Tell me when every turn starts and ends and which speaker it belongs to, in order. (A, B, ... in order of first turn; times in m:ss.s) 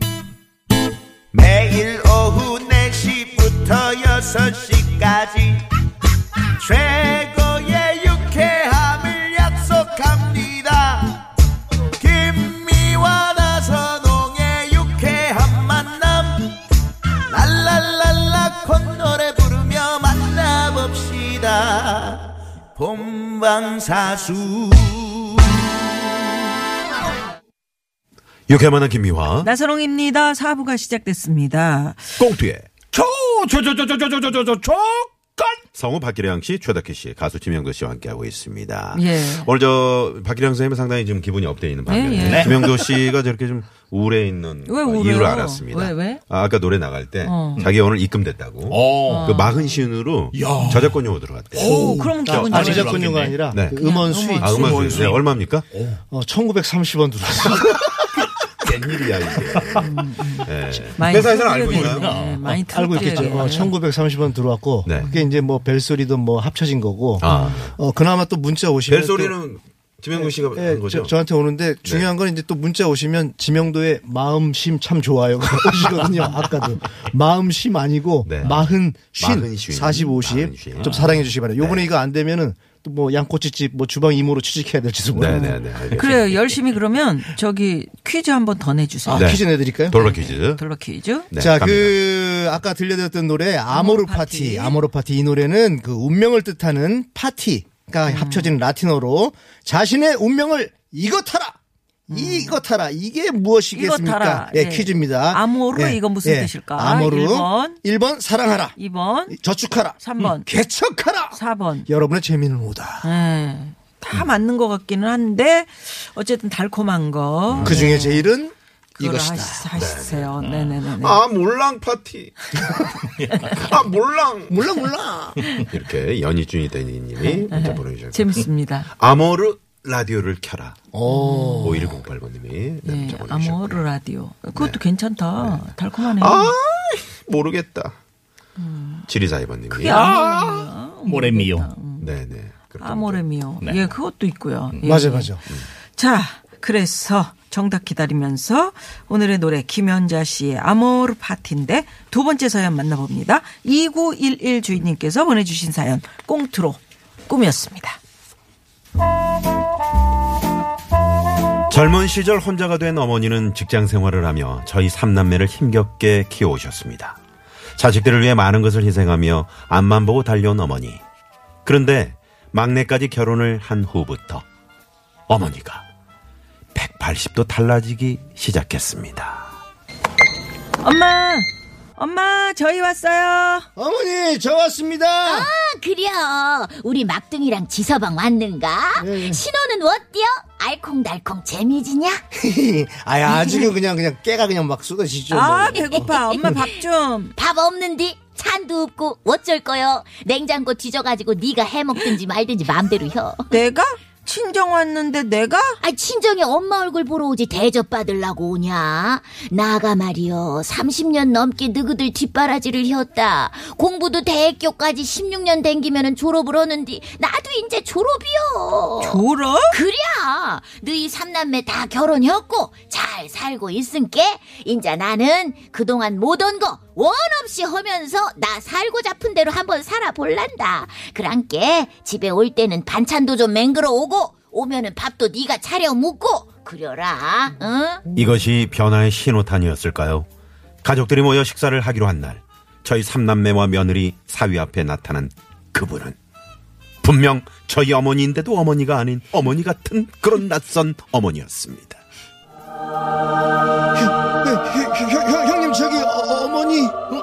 0:01.3-0:05.6 A
0:06.6-0:11.2 A
0:12.0-0:16.6 A
0:17.3-0:25.6 A
0:28.5-0:29.5 B
0:29.4-0:32.2 C
0:32.2-0:32.7 B
0:32.9-0:35.6 D
0:35.7-0:52.6 B
0:38.9-0:39.5 C
0:41.8-0:42.6 C
0:42.2-0:43.0 D
0:44.6-0:46.2 C
0:47.2-0:47.7 C
0:48.7-0:49.4 D
0:49.0-0:49.7 C
0:50.3-0:51.0 D
0:50.6-0:50.8 C
0:51.5-0:54.7 E
0:51.6-0:53.5 D
0:51.7-0:55.1 C
0:53.5-0:53.8 B
0:54.4-0:55.7 B
0:54.6-0:56.0 D
0:56.1-0:57.9 E
0:58.2-0:58.5 D
0:58.6-0:59.9 B
0:59.4-0:59.8 D
0:59.8-1:03.7 C
1:00.4-1:02.2 B
1:01.7-1:03.3 D
1:02.7-1:09.4 E
1:05.0-1:05.3 C
1:07.2-1:07.8 B
1:07.3-1:07.6 C
1:08.9-1:11.2 B
1:10.1-1:25.6 E
1:11.8-1:12.1 B
1:18.2-1:21.9 B
1:20.8-1:21.1 D
1:25.1-1:26.4 B
1:25.3-1:29.4 C
1:29.0-1:30.0 E
1:29.1-1:30.6 B
1:29.9-1:31.3 C
1:31.3-1:32.0 B
1:31.4-1:41.6 E
1:33.7-1:34.8 C
1:38.0-1:38.5 C
1:42.1-1:53.1 E
1:42.1-1:42.6 C
1:43.7-1:47.8 C
1:48.7-1:49.4 C
1:49.9-1:50.5 C
1:51.3-1:51.9 C
1:53.0-1:58.3 C
1:57.5-1:57.9 B
1:57.6-1:59.7 E
1:58.9-2:01.2 C
1:59.7-2:00.3 B
2:00.4-2:00.8 D
2:01.0-2:04.7 B
2:03.0-2:03.7 D
2:04.5-2:05.4 E
2:05.7-2:08.4 B
2:07.5-2:08.9 C
2:08.9-2:10.8 B
2:10.9-2:11.9 E
2:11.0-2:12.0 C
2:11.6-2:13.8 B
2:12.8-2:16.5 C
2:15.4-2:18.0 B
2:18.6-2:19.0 C
2:19.1-2:20.0 B
2:19.7-2:22.1 C
2:19.8-2:21.7 D
2:22.0-2:23.2 B
2:22.8-2:38.0 C
2:23.6-2:23.9 D
2:24.8-2:25.4 E
2:41.7-2:47.2 B
2:47.8-2:51.0 B
2:51.6-2:54.4 B
2:55.3-2:55.8 B
2:56.7-2:59.5 B
3:00.8-3:03.7 C
3:03.8-3:05.5 E
3:05.2-3:12.2 F
3:09.0-3:09.4 E
3:12.4-3:16.6 E
3:13.3-3:13.7 C
3:15.3-3:17.3 C
3:17.4-3:23.4 F
3:23.5-3:25.8 C
3:25.8-3:58.0 F
3:39.0-3:39.7 C
3:58.1-4:00.3 B
4:00.8-4:06.2 B
4:07.0-4:12.0 B
4:13.9-4:17.0 E